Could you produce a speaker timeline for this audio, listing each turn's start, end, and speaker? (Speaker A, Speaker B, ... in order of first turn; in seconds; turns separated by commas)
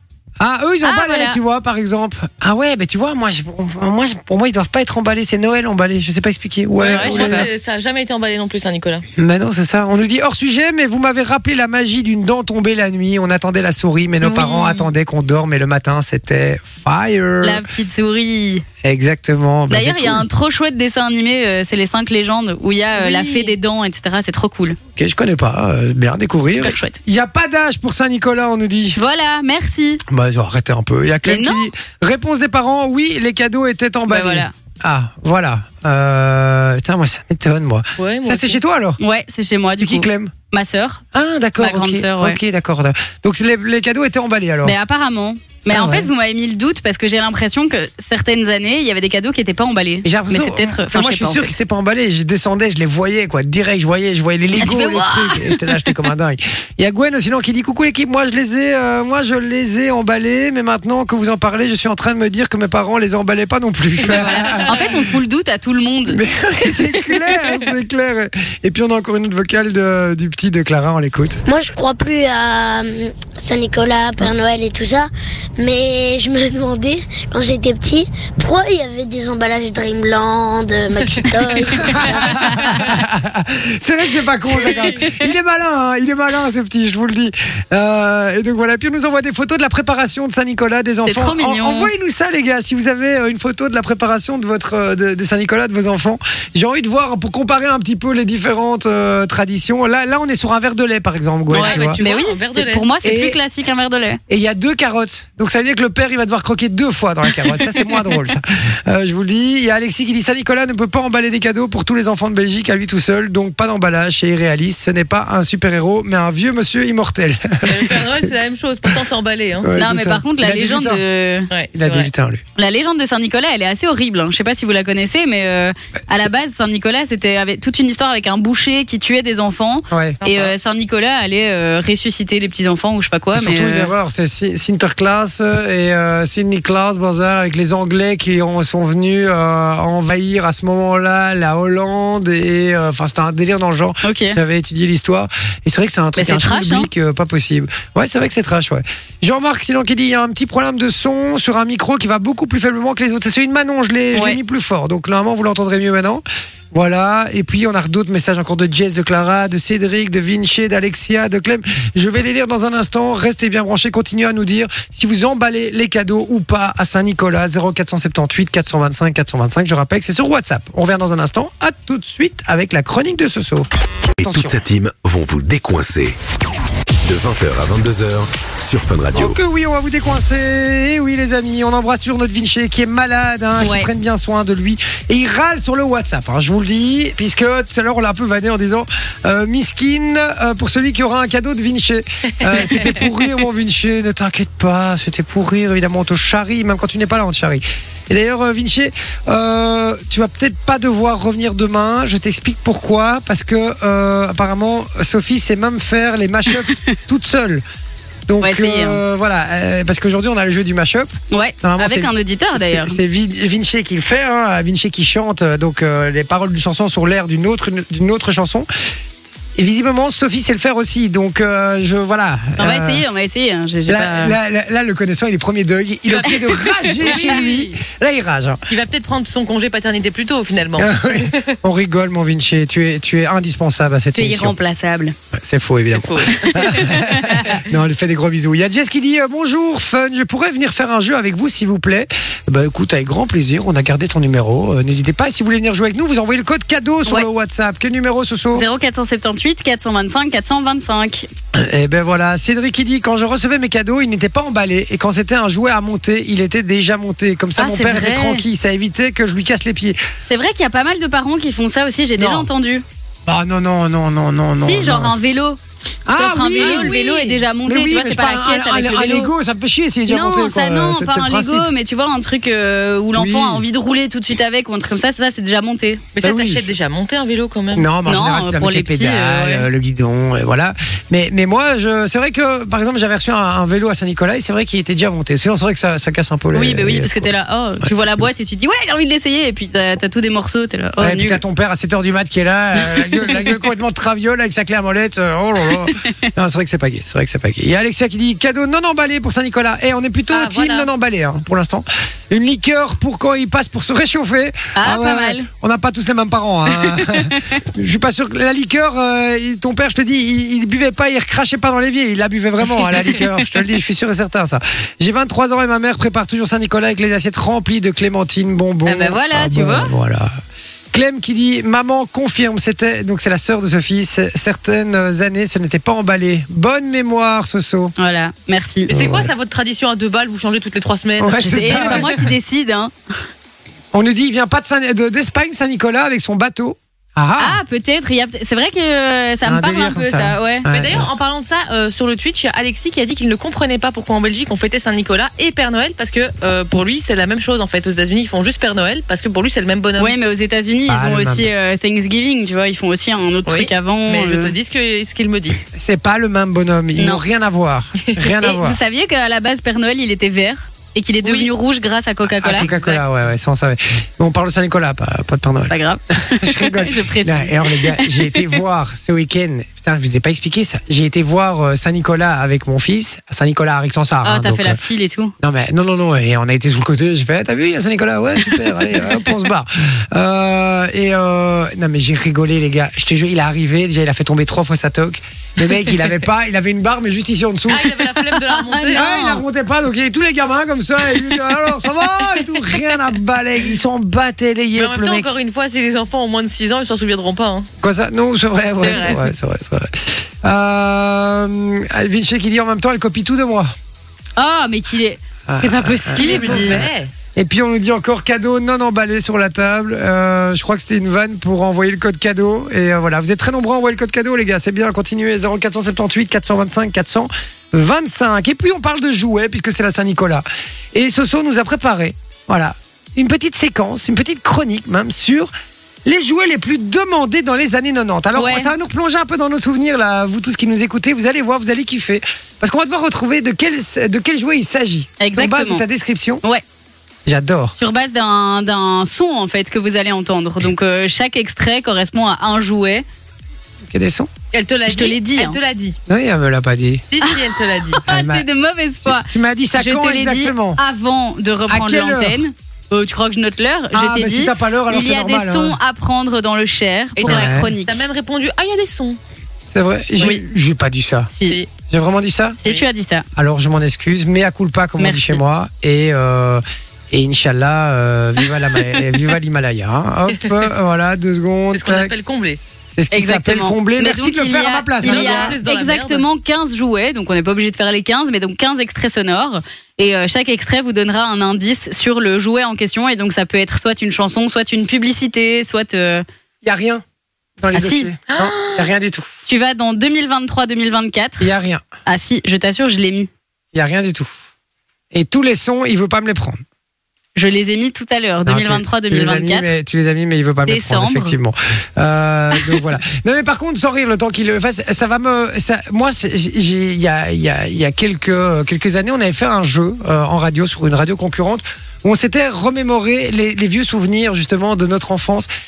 Speaker A: 0.4-7.5, Speaker B: 0.8-1.4, Speaker C: 6.8-9.1, Speaker B: 6.8-7.5, Speaker A: 9.2-17.6, Speaker B: 14.2-14.8, Speaker B: 17.4-18.6, Speaker A: 18.8-20.2, Speaker B: 19.7-24.8, Speaker A: 22.9-23.5, Speaker A: 25.0-29.0, Speaker B: 26.5-27.0, Speaker B: 29.0-30.0, Speaker A: 30.1-39.0, Speaker B: 31.2-31.7, Speaker B: 34.1-34.5, Speaker C: 38.0-38.6, Speaker B: 39.0-41.0, Speaker A: 39.8-40.3, Speaker A: 41.1-44.8, Speaker B: 41.6-42.4, Speaker B: 44.6-51.5, Speaker A: 45.7-46.1, Speaker A: 50.0-65.0, Speaker B: 54.6-55.9, Speaker B: 64.1-66.2, Speaker A: 66.1-71.4, Speaker D: 71.5-82.8, Speaker A: 81.8-102.0, Speaker B: 82.3-82.8, Speaker B: 84.5-85.3, Speaker B: 91.0-91.9, Speaker B: 101.5-104.2, Speaker C: 101.5-102.9, Speaker A: 103.0-103.4, Speaker A: 104.3-118.3, Speaker C: 117.6-119.7, Speaker A: 119.6-121.0, Speaker B: 119.8-121.5, Speaker C: 121.5-122.1, Speaker A: 121.7-122.4, Speaker B: 122.6-133.9, Speaker A: 129.9-130.2, Speaker C: 130.2-130.5, Speaker A: 133.3-173.7, Speaker B: 144.0-144.4, Speaker B: 146.2-146.9, Speaker B: 154.1-154.4, Speaker E: 174.2-176.2, Speaker A: 174.2-174.6, Speaker E: 177.1-179.4, Speaker A: 179.1-207.6, Speaker B: 183.6-183.9, Speaker C: 192.4-192.9, Speaker A: 208.3-218.7, Speaker B: 208.4-209.0, Speaker B: 211.3-213.0, Speaker A: 219.6-223.0, Speaker B: 222.6-224.4, Speaker A: 223.9-228.6, Speaker C: 226.1-227.5, Speaker B: 226.3-227.8, Speaker C: 228.7-231.6, Speaker A: 230.8-234.6, Speaker B: 234.1-235.2, Speaker A: 235.3-248.7, Speaker C: 236.0-236.9, Speaker B: 236.5-237.6, Speaker B: 248.5-251.3, Speaker A: 251.6-260.0, Speaker B: 257.6-258.4, Speaker B: 260.3-262.8, Speaker A: 262.2-262.5, Speaker A: 263.3-265.1, Speaker B: 264.6-265.6, Speaker A: 266.1-267.0, Speaker B: 266.2-269.3, Speaker C: 266.6-267.4, Speaker A: 267.6-271.7, Speaker B: 270.1-276.1, Speaker A: 273.2-273.6, Speaker C: 276.2-277.9, Speaker A: 276.2-276.7, Speaker A: 277.7-287.3, Speaker B: 278.1-279.7, Speaker B: 286.5-291.4, Speaker A: 291.0-320.3, Speaker B: 296.0-296.3, Speaker C: 300.3-300.9, Speaker B: 304.8-305.5, Speaker B: 306.7-307.6, Speaker B: 318.9-319.9, Speaker A: 320.9-327.9, Speaker B: 328.0-328.9, Speaker C: 328.9-332.2, Speaker A: 328.9-329.3, Speaker A: 331.2-332.2, Speaker B: 331.4-332.9, Speaker A: 333.9-337.6, Speaker B: 337.4-340.7, Speaker A: 339.4-341.1, Speaker C: 340.7-350.2, Speaker B: 350.0-354.5, Speaker A: 350.9-351.5, Speaker C: 353.5-355.6, Speaker A: 355.7-358.8, Speaker B: 357.0-357.2, Speaker B: 358.4-362.7, Speaker C: 361.2-361.5, Speaker A: 362.4-374.8, Speaker C: 362.6-363.0, Speaker B: 365.7-368.6, Speaker B: 374.2-375.3, Speaker A: 375.4-387.9, Speaker C: 387.7-389.1, Speaker B: 388.5-389.4, Speaker A: 388.9-395.3, Speaker C: 394.8-397.7, Speaker A: 397.8-403.7, Speaker B: 398.8-399.2, Speaker C: 398.8-399.2, Speaker B: 404.4-406.8, Speaker A: 405.5-425.5, Speaker C: 406.1-407.1, Speaker A: 426.1-436.4, Speaker B: 428.4-428.7, Speaker B: 435.2-435.8, Speaker A: 437.3-437.8, Speaker B: 437.8-443.1, Speaker A: 443.9-444.3, Speaker C: 444.5-446.0, Speaker B: 444.9-445.6, Speaker A: 446.1-447.0, Speaker C: 447.1-448.0, Speaker B: 447.9-458.1, Speaker A: 448.1-448.5, Speaker A: 449.0-450.8, Speaker A: 451.7-452.4, Speaker A: 453.9-455.8, Speaker C: 457.2-459.2, Speaker A: 457.2-457.7, Speaker A: 459.7-461.3, Speaker B: 461.3-461.6, Speaker A: 461.9-462.6, Speaker B: 462.6-463.2, Speaker A: 463.4-472.1, Speaker B: 465.0-465.4, Speaker C: 471.7-472.6, Speaker A: 472.9-475.6, Speaker B: 473.1-486.2, Speaker C: 475.0-476.3, Speaker A: 486.6-487.0, Speaker A: 487.6-489.3, Speaker B: 487.7-488.1, Speaker C: 488.3-488.9, Speaker B: 489.5-491.5, Speaker A: 491.4-491.8, Speaker B: 492.1-493.3, Speaker A: 493.7-494.3, Speaker A: 495.1-496.6, Speaker B: 497.4-499.7, Speaker A: 498.5-515.5, Speaker B: 500.7-501.4